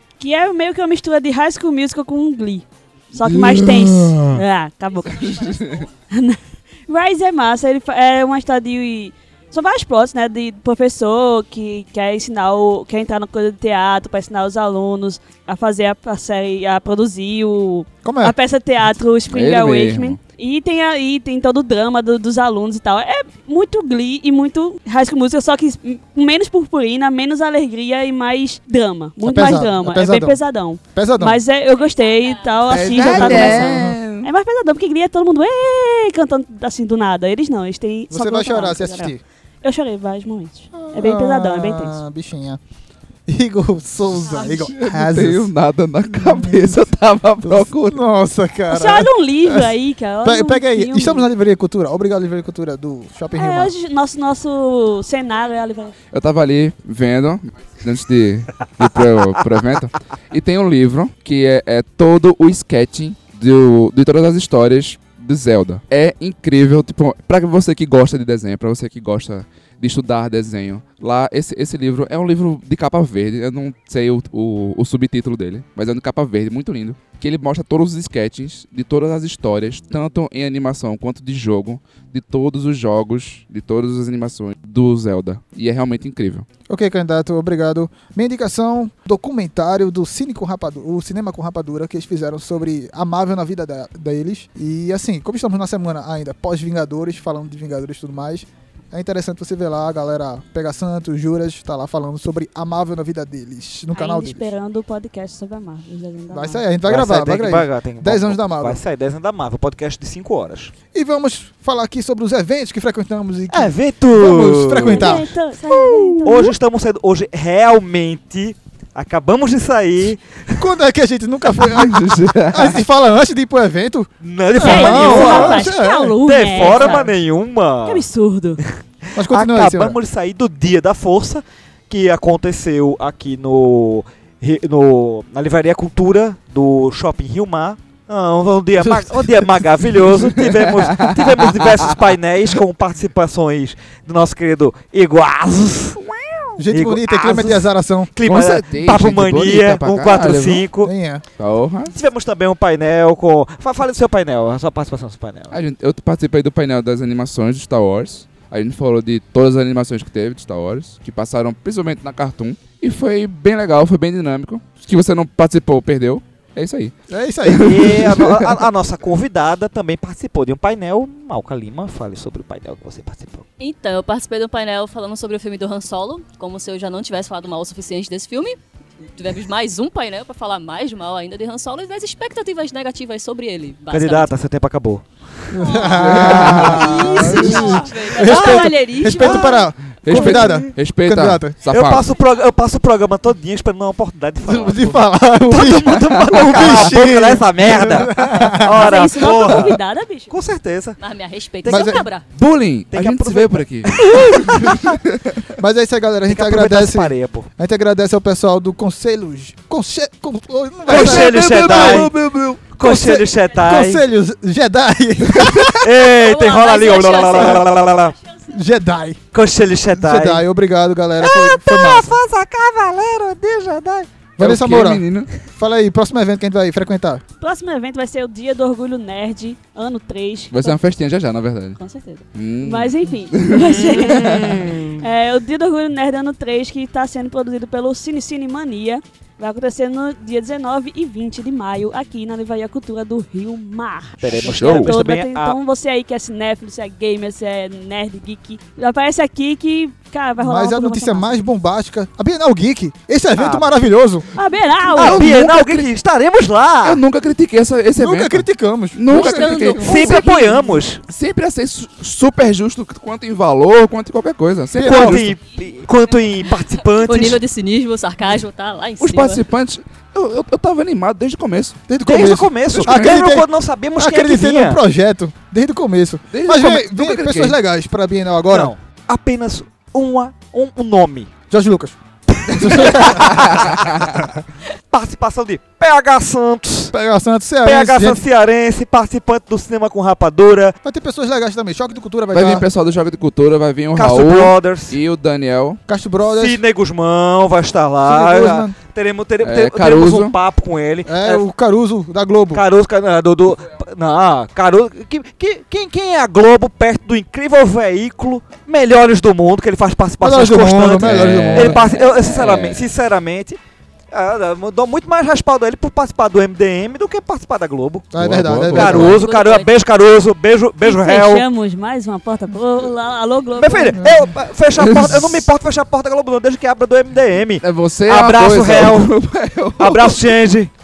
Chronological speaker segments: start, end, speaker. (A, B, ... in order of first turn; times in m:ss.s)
0:00.2-0:42.0 A
0:03.2-0:04.3 B
0:05.1-0:05.8 B
0:05.1-0:05.8 C
0:18.0-0:18.4 D
0:19.3-0:20.2 B
0:29.2-0:31.4 D
0:31.8-0:32.8 C
0:32.7-0:34.3 B
0:32.9-0:34.0 D
0:38.1-0:39.2 D
0:40.7-0:42.6 D
0:43.3-0:45.5 D
0:44.3-0:44.7 A
0:44.8-0:48.0 B
0:46.1-0:46.7 D
0:47.4-0:49.7 D
0:48.7-0:51.3 A
0:50.2-0:53.7 D
0:53.3-0:55.9 A
0:56.1-1:26.4 B
1:26.7-1:44.4 D
1:43.9-1:46.6 A
1:46.3-1:48.8 D
1:46.8-1:50.7 E
1:50.9-1:55.3 D
1:53.5-2:00.6 E
1:54.9-1:56.5 A
2:00.6-2:06.2 D
2:01.6-2:02.8 B
2:04.2-2:08.0 E
2:04.6-2:07.1 A
2:07.8-2:08.6 A
2:08.6-2:30.9 E
2:09.1-2:10.0 D
2:18.8-2:19.5 D
2:20.2-2:21.9 B
2:26.6-2:28.1 D
2:28.2-2:30.7 B
2:30.8-2:31.2 D
2:31.4-2:31.9 B
2:31.9-2:35.6 E
2:35.5-2:48.5 B
2:47.1-2:48.2 D
2:47.6-2:53.4 E
2:53.6-2:58.6 C
2:59.1-3:04.3 C
3:03.9-3:05.0 E
3:05.5-3:11.6 D
3:05.6-3:08.1 A
3:06.0-3:07.7 B
3:06.3-3:07.3 E
3:06.5-3:09.7 C
3:08.1-3:10.7 E
3:10.0-3:12.0 B
3:11.6-3:21.0 E
3:14.4-3:19.0 D
3:16.0-3:17.0 B
3:18.6-3:20.4 A
3:21.0-3:22.2 C
3:21.6-3:22.1 E
3:21.7-3:22.1 D
3:22.3-3:25.4 B
3:22.9-3:25.0 E
3:25.6-3:32.1 D
3:26.3-3:27.5 E
3:30.9-3:32.1 E
3:30.9-3:32.7 B
3:32.7-3:34.0 E
3:32.8-3:35.9 D
3:35.4-3:35.6 B
3:35.8-3:38.2 E
3:36.1-3:37.7 C
3:38.5-3:39.2 D
3:39.3-3:40.4 E
3:39.9-3:42.2 D
3:41.2-3:44.1 E
3:44.4-3:47.2 D
3:44.4-3:45.3 B
3:47.4-3:50.8 A
3:50.5-3:51.8 B
3:51.8-4:11.3 A
3:52.3-3:54.6 B
3:54.3-3:55.0 E
4:04.2-4:05.6 E
4:04.3-4:04.9 D
4:04.6-4:04.9 B
4:10.4-4:14.3 D
4:13.3-4:13.7 E
4:14.3-4:15.3 A
4:15.0-4:15.3 D
4:15.0-4:17.0 E
4:15.0-4:15.9 B
4:16.8-4:20.2 B
4:18.0-4:20.3 D
4:19.1-4:20.6 C
4:19.8-4:21.0 E
4:19.8-4:20.4 A
4:21.0-4:25.3 B
4:24.7-4:25.4 D
4:24.8-4:27.4 E
4:26.8-4:29.4 C
4:29.0-4:31.8 B
4:31.9-4:38.7 D
4:32.0-4:34.8 E
4:32.7-4:33.3 B
4:36.3-4:37.6 B
4:38.5-4:41.3 E
4:41.5-4:42.0 D
4:42.4-4:44.1 E
4:42.5-4:44.1 B
4:42.5-4:43.5 D
4:44.9-4:46.9 E
4:46.9-4:48.2 D
4:47.6-4:50.8 E
4:50.8-4:52.6 D
4:52.3-4:55.8 B
4:53.9-4:55.0 E
4:55.9-4:56.6 D
4:56.3-5:01.4 E
4:58.0-4:58.7 D
4:59.4-5:00.4 B
5:01.0-5:02.6 D
5:02.5-5:13.6 E
5:10.2-5:11.8 D
5:11.0-5:12.9 B
5:14.1-5:18.1 E
5:18.1-5:19.2 D
5:18.2-5:19.2 B
5:18.7-5:21.4 E
5:19.0-5:19.8 C
5:20.8-5:24.1 A
5:23.6-5:29.1 E
5:24.0-5:24.3 D
5:24.8-5:25.4 B
5:27.6-5:30.3 B
5:29.8-5:30.7 E